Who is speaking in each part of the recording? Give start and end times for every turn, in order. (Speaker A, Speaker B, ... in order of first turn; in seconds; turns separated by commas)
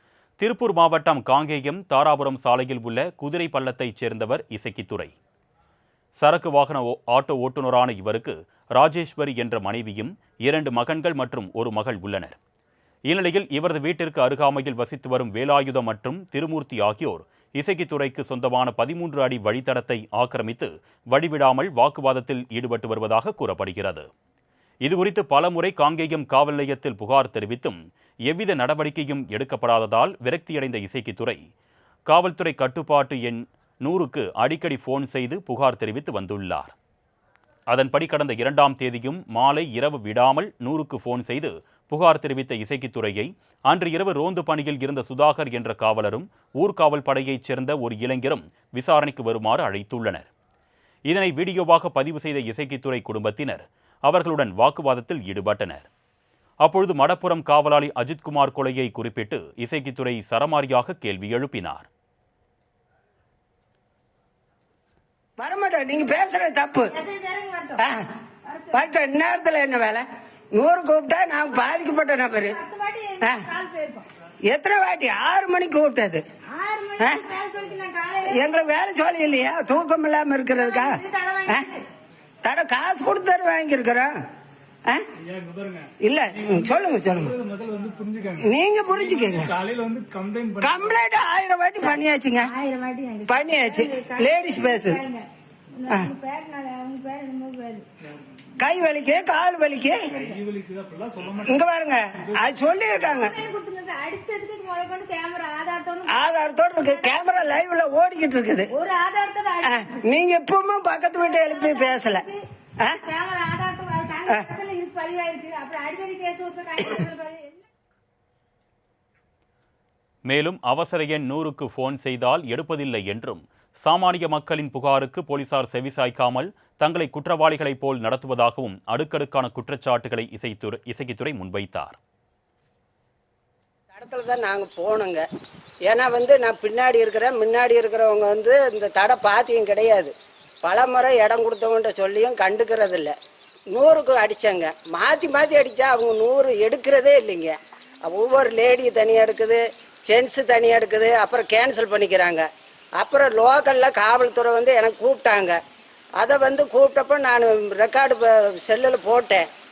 Speaker A: 0.4-5.1, Speaker A: 6.2-12.4, Speaker A: 13.1-24.1, Speaker A: 24.8-31.4, Speaker A: 32.1-36.7, Speaker A: 37.7-50.3, Speaker A: 51.1-55.9, Speaker A: 56.6-61.9, Speaker B: 65.4-67.0, Speaker C: 66.9-67.8, Speaker B: 67.8-68.0, Speaker C: 68.5-68.8, Speaker B: 68.7-72.6, Speaker C: 72.3-74.0, Speaker B: 73.2-73.5, Speaker B: 74.5-76.2, Speaker C: 76.5-78.7, Speaker B: 77.0-77.2, Speaker B: 78.2-81.7, Speaker C: 80.5-81.8, Speaker B: 82.4-84.1, Speaker D: 85.3-85.9, Speaker B: 86.0-87.4, Speaker D: 87.2-88.5, Speaker B: 88.4-89.5, Speaker D: 89.0-90.8, Speaker B: 90.6-92.5, Speaker C: 92.4-97.9, Speaker B: 93.3-95.0, Speaker B: 98.6-100.2, Speaker C: 100.2-100.4, Speaker D: 100.3-101.5, Speaker B: 101.4-103.3, Speaker C: 103.1-107.5, Speaker B: 106.1-108.7, Speaker C: 108.7-109.9, Speaker B: 109.6-112.2, Speaker C: 111.2-117.7, Speaker A: 120.2-132.0, Speaker B: 133.9-135.2, Speaker B: 135.9-140.1, Speaker B: 140.6-143.1, Speaker B: 143.7-147.5, Speaker B: 148.1-152.5, Speaker B: 153.0-155.6, Speaker B: 156.2-159.4